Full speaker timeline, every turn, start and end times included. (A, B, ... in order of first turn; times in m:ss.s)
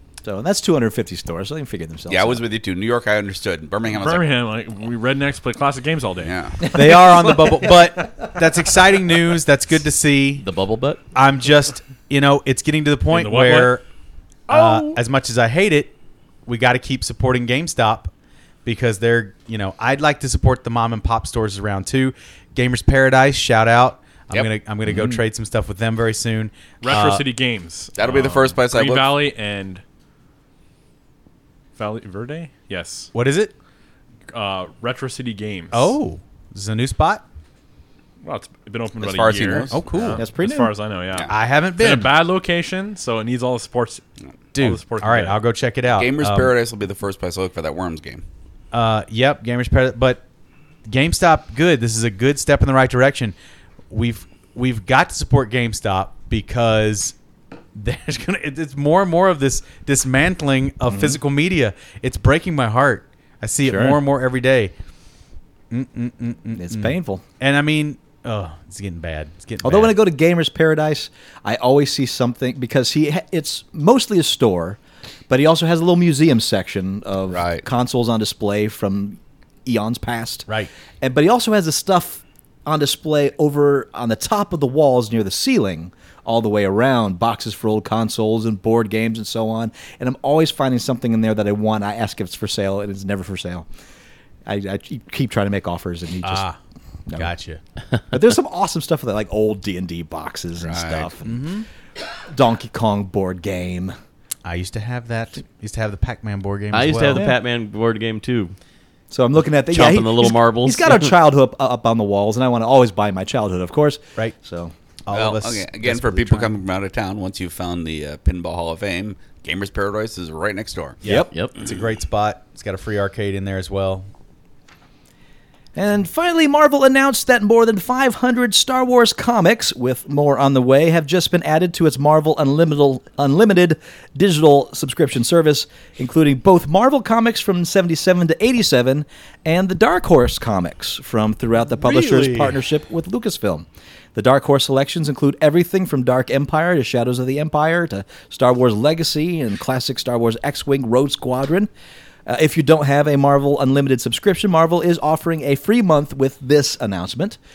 0:00.2-0:02.4 A
0:02.1-0:04.3 B
0:03.9-0:07.7 C
0:06.2-0:06.6 B
0:06.6-0:07.0 A
0:06.7-0:10.4 D
0:10.4-0:11.0 E
0:11.1-0:13.8 D
0:13.1-0:13.8 C
0:14.5-0:15.0 C
0:14.5-0:15.9 D
0:16.4-0:18.1 D
0:18.6-0:27.2 D
0:24.8-0:25.2 A
0:26.8-0:29.8 C
0:28.0-0:29.2 B
0:31.8-0:33.1 C
0:33.1-0:33.5 D
0:34.3-0:35.9 C
0:35.7-0:37.2 D
0:38.2-0:44.0 C
0:39.0-0:39.8 B
0:39.7-0:40.2 D
0:40.2-0:40.8 A
0:41.3-0:42.1 D
0:44.5-0:46.5 D
0:44.6-0:45.4 C
0:46.0-0:48.2 B
0:48.7-0:50.2 D
0:50.9-0:53.3 D
0:53.9-0:57.1 D
0:57.7-1:04.7 D
1:00.9-1:01.2 A
1:03.7-1:04.0 E
1:05.7-1:10.0 D
1:06.6-1:07.2 A
1:09.6-1:20.5 A
1:17.3-1:17.6 B
1:21.0-1:33.6 A
1:34.4-1:36.4 A
1:36.2-1:36.6 D
1:37.1-1:37.6 D
1:38.1-1:41.4 A
1:40.6-1:41.1 B
1:41.2-1:41.7 D
1:42.3-1:43.9 A
1:44.4-1:47.3 D
1:46.7-1:48.5 E
1:47.1-1:47.4 A
1:49.1-1:54.7 A
1:49.6-1:51.1 E
1:55.0-1:56.6 D
1:55.1-2:01.0 B
2:01.0-2:04.1 D
2:01.0-2:01.3 A
2:05.7-2:31.7 A
2:21.7-2:22.6 D
2:32.2-2:37.4 A